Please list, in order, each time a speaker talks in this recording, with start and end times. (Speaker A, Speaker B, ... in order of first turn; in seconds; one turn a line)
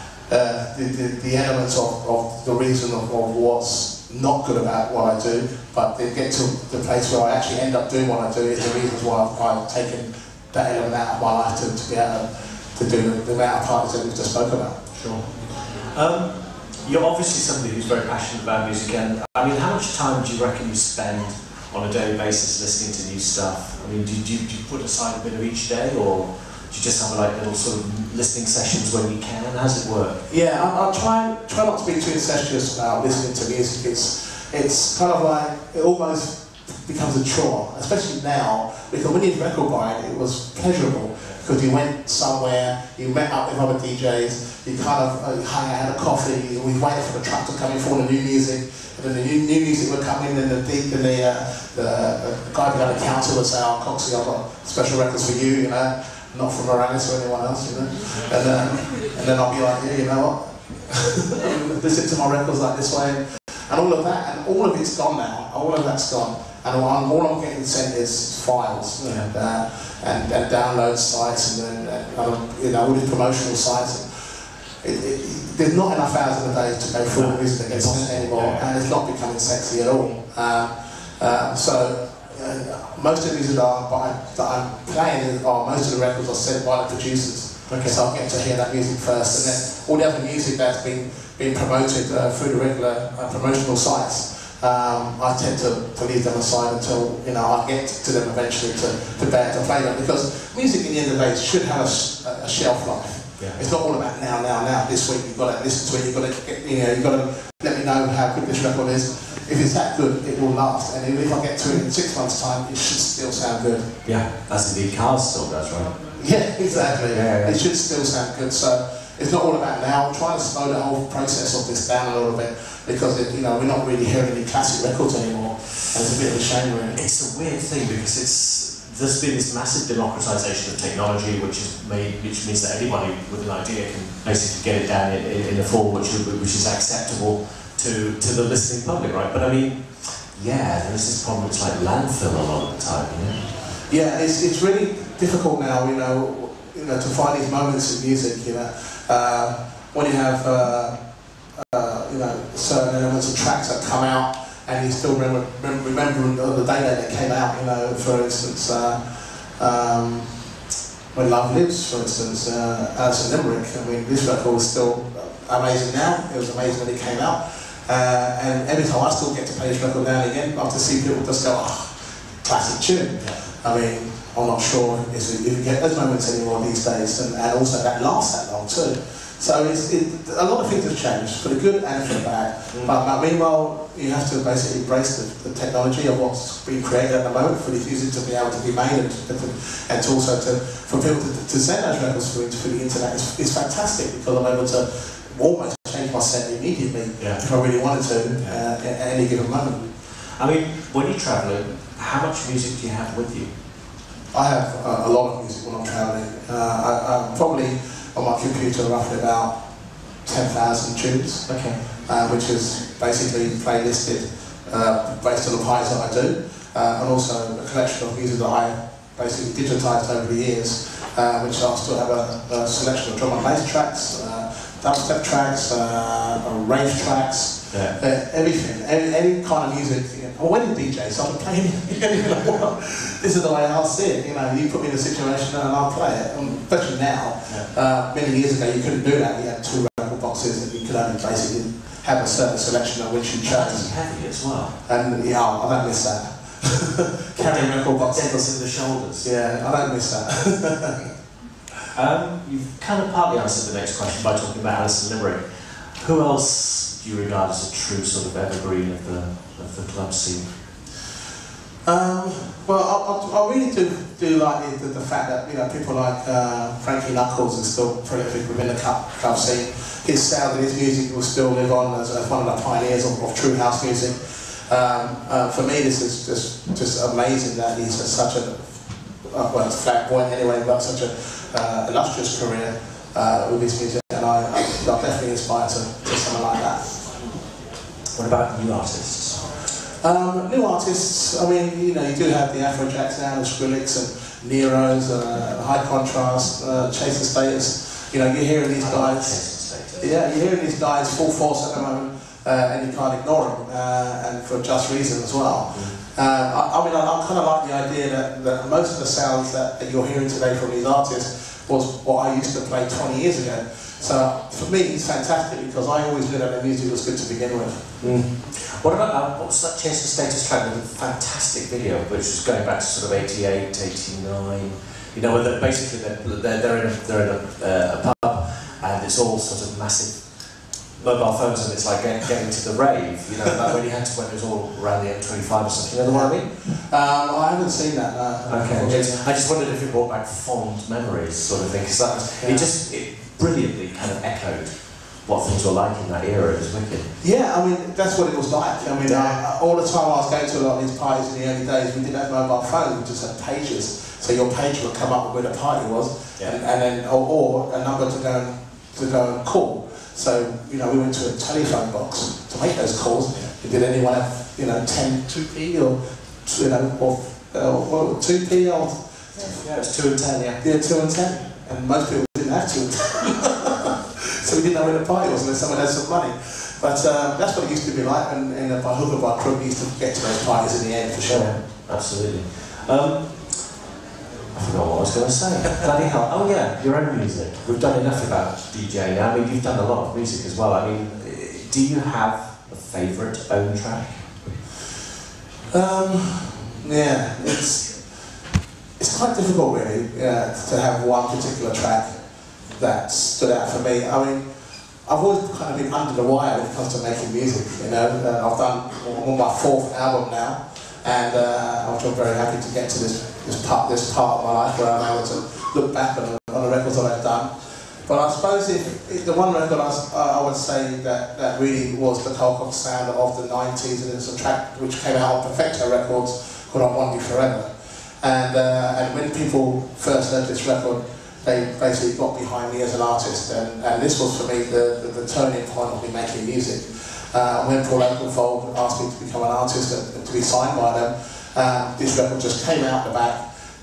Speaker A: 0.3-14.9
Speaker B: 14.9-30.2
Speaker A: 30.3-114.0
Speaker B: 69.0-69.3
Speaker B: 77.1-78.7
Speaker B: 87.7-88.0
Speaker B: 89.3-89.6
Speaker B: 114.0-116.1
Speaker A: 116.2-127.0
Speaker B: 117.1-117.6
Speaker B: 126.9-143.7
Speaker A: 143.9-160.6
Speaker A: 161.1-199.9
Speaker B: 173.2-173.4
Speaker B: 182.7-183.0
Speaker B: 197.2-197.4
Speaker B: 200.2-203.5
Speaker A: 204.3-251.1
Speaker B: 211.5-211.8
Speaker B: 227.7-228.0
Speaker B: 243.5-244.8
Speaker B: 247.3-249.3
Speaker B: 251.9-260.6
Speaker A: 261.8-287.1
Speaker B: 288.1-289.6
Speaker A: 290.0-318.2
Speaker B: 298.8-300.1
Speaker B: 305.7-306.0
Speaker B: 318.0-336.6
Speaker A: 336.1-339.2
Speaker B: 338.4-347.1
Speaker A: 342.4-342.7
Speaker A: 347.2-369.3
Speaker B: 349.0-349.4
Speaker B: 369.4-370.6
Speaker A: 370.6-381.6
Speaker B: 381.3-383.8
Speaker B: 384.5-394.4
Speaker A: 395.7-398.4
Speaker A: 399.0-443.5